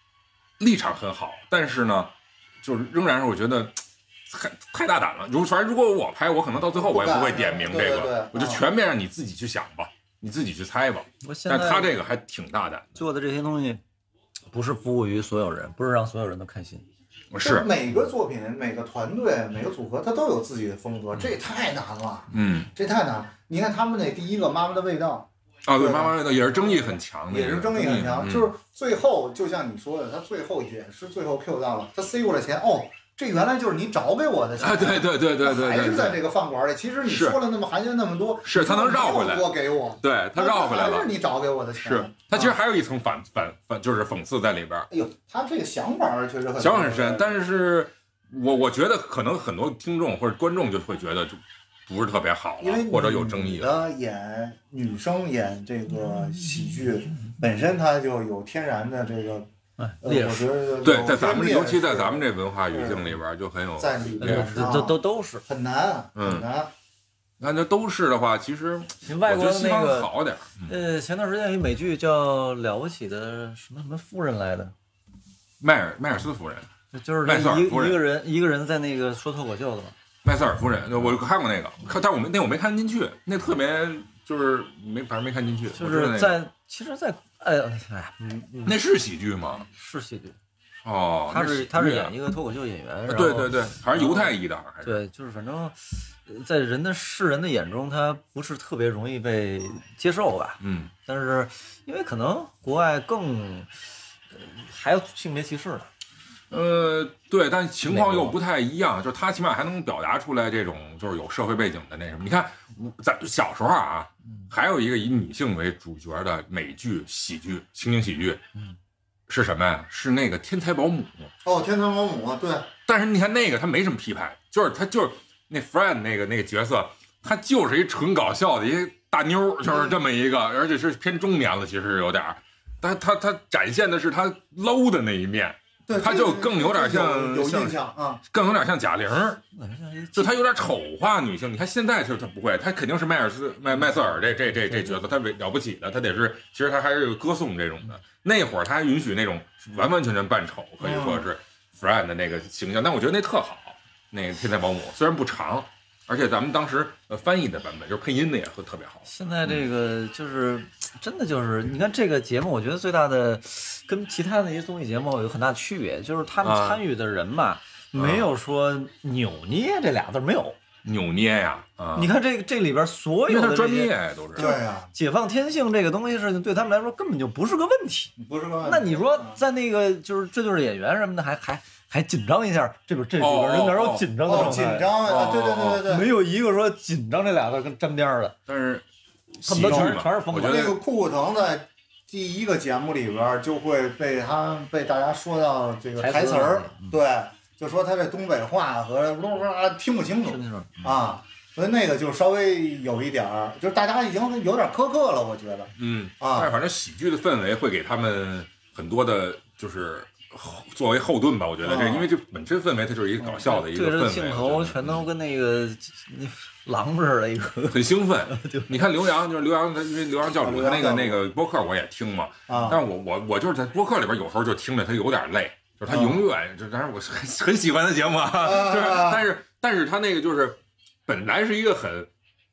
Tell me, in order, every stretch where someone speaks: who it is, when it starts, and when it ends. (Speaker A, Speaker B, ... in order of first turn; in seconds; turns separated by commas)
Speaker A: 0.6-13.0, Speaker B: 6.7-8.6, Speaker C: 11.2-11.9, Speaker C: 13.0-13.8, Speaker C: 14.5-16.9, Speaker A: 17.3-17.7, Speaker B: 17.4-42.6, Speaker A: 22.3-22.7, Speaker A: 25.7-28.5, Speaker A: 34.6-36.2, Speaker A: 37.1-37.4, Speaker A: 38.4-41.1, Speaker A: 41.8-44.9, Speaker B: 44.9-47.3, Speaker A: 46.6-53.8, Speaker B: 52.6-59.5, Speaker C: 59.8-60.5, Speaker B: 60.0-63.1, Speaker A: 60.8-64.7, Speaker B: 63.8-66.7, Speaker C: 64.2-65.4, Speaker A: 66.2-66.5, Speaker A: 67.4-70.7, Speaker C: 69.0-70.1, Speaker C: 70.7-74.7, Speaker A: 75.6-76.7, Speaker C: 76.9-80.0, Speaker A: 77.2-78.0, Speaker A: 80.2-86.4, Speaker C: 85.7-88.8, Speaker A: 88.7-89.7, Speaker C: 89.7-90.4, Speaker A: 90.8-92.1, Speaker C: 91.3-103.7, Speaker A: 93.1-95.0, Speaker A: 100.6-100.9, Speaker C: 104.3-105.9, Speaker A: 106.5-118.4, Speaker C: 107.9-108.3, Speaker A: 119.3-121.3, Speaker B: 121.4-122.7, Speaker A: 122.9-139.4, Speaker B: 129.7-129.9, Speaker B: 135.9-138.2, Speaker C: 139.5-140.3, Speaker A: 140.2-159.6, Speaker B: 150.8-151.3, Speaker C: 159.1-170.6, Speaker A: 166.4-166.8, Speaker A: 167.9-168.3, Speaker A: 170.8-172.1, Speaker C: 171.9-185.0, Speaker A: 173.3-174.5, Speaker B: 174.3-174.9, Speaker B: 178.2-179.4, Speaker A: 183.2-185.8, Speaker B: 184.3-186.1, Speaker C: 185.8-188.4, Speaker A: 188.5-188.8, Speaker A: 189.4-190.8, Speaker C: 189.4-190.7, Speaker B: 189.6-206.5, Speaker C: 196.0-197.0, Speaker C: 200.3-201.0, Speaker A: 205.8-215.0, Speaker B: 211.6-212.1, Speaker C: 213.2-218.7, Speaker A: 217.7-232.1, Speaker B: 220.4-221.2, Speaker B: 222.5-222.8, Speaker B: 225.9-226.3, Speaker B: 228.4-229.3